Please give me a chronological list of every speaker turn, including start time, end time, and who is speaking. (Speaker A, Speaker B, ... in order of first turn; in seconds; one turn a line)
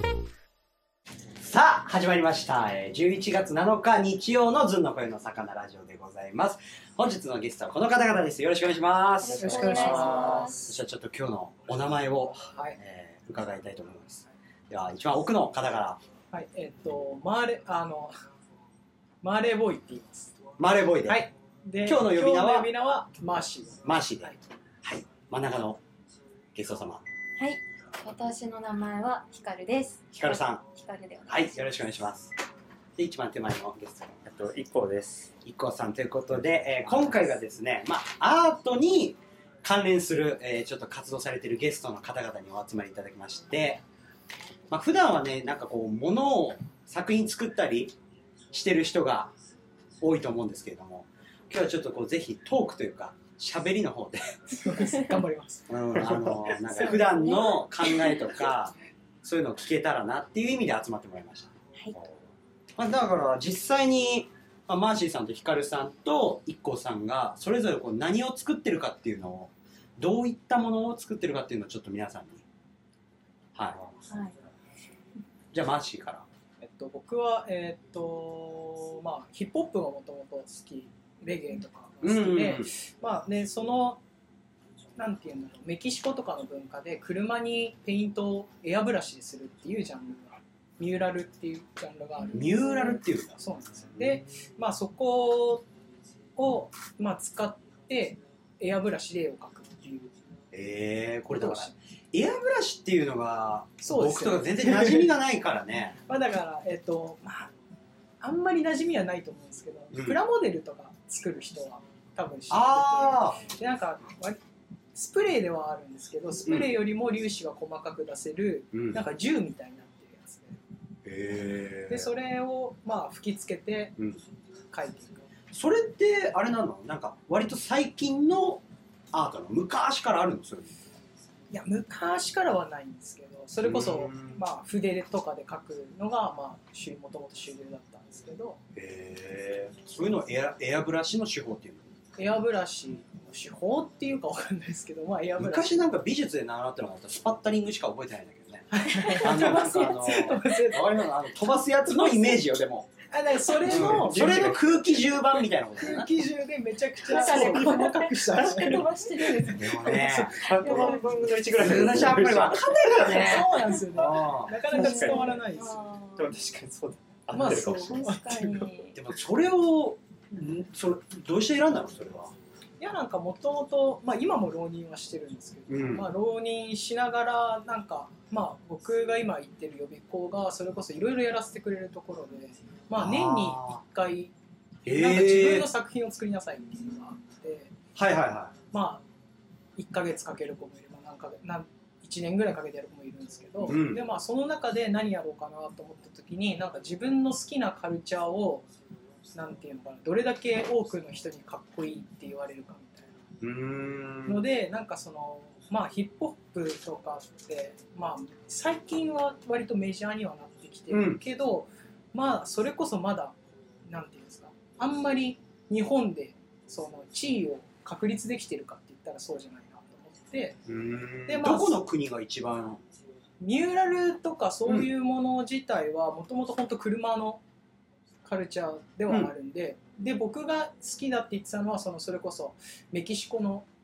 Speaker A: 1.4-16.0
Speaker B: 9.2-10.7
Speaker C: 9.3-10.7
Speaker C: 16.3-18.1
Speaker C: 19.2-20.3
Speaker A: 20.6-21.3
Speaker C: 21.0-24.4
Speaker A: 21.8-22.7
Speaker A: 23.8-25.8
Speaker A: 26.5-27.0
Speaker B: 27.4-31.7
Speaker A: 30.1-30.6
Speaker A: 31.3-32.3
Speaker A: 33.0-34.3
Speaker D: 34.2-35.3
Speaker A: 35.4-43.8
Speaker D: 36.9-37.3
Speaker A: 44.7-47.9
Speaker A: 48.5-49.3
Speaker A: 50.0-54.4
Speaker C: 54.5-55.8
Speaker A: 55.7-61.5
Speaker B: 56.6-58.2
Speaker A: 62.8-72.4
Speaker B: 74.1-74.3
Speaker A: 75.5-76.2
Speaker C: 76.6-84.0
Speaker A: 82.0-82.7
Speaker C: 85.0-95.7
Speaker A: 92.3-93.4
Speaker C: 96.3-100.1
Speaker A: 100.5-106.0
Speaker C: 101.3-101.7
Speaker C: 103.8-105.1
Speaker C: 106.1-107.5
Speaker C: 108.2-114.4
Speaker A: 109.9-110.2
Speaker A: 112.5-113.4
Speaker C: 114.9-120.6
Speaker A: 116.5-116.7
Speaker A: 118.7-119.0
Speaker A: 121.0-122.1
Speaker C: 121.9-124.0
Speaker C: 124.7-125.2
Speaker A: 125.5-130.8
Speaker C: 131.5-138.6
Speaker A: 133.6-134.4
Speaker A: 138.7-141.9
Speaker C: 142.2-145.7
Speaker A: 145.4-152.9
Speaker C: 148.7-151.3
Speaker C: 151.8-152.4
Speaker C: 153.1-154.6
Speaker D: 153.6-155.0
Speaker A: 153.6-156.1
Speaker C: 155.8-161.0
Speaker B: 157.1-161.8
Speaker D: 157.1-157.8
Speaker A: 159.5-160.8
Speaker D: 159.9-163.3
Speaker A: 161.5-164.6
Speaker C: 163.0-165.8
Speaker D: 164.7-165.4
Speaker B: 164.7-166.3
Speaker D: 166.2-168.0
Speaker C: 167.3-168.7
Speaker B: 167.4-169.0
Speaker A: 168.9-172.3
Speaker C: 172.8-184.3
Speaker A: 175.7-176.1
Speaker A: 182.9-183.8
Speaker A: 184.8-185.7
Speaker C: 184.8-187.7
Speaker A: 187.9-188.5
Speaker C: 188.7-189.0
Speaker C: 189.8-198.7
Speaker A: 193.6-194.0
Speaker C: 199.3-203.2
Speaker A: 203.4-204.4
Speaker C: 204.2-220.6
Speaker A: 210.9-211.2
Speaker A: 220.7-222.8
Speaker C: 221.3-221.8
Speaker C: 223.4-227.4
Speaker C: 228.2-233.7
Speaker A: 229.1-229.3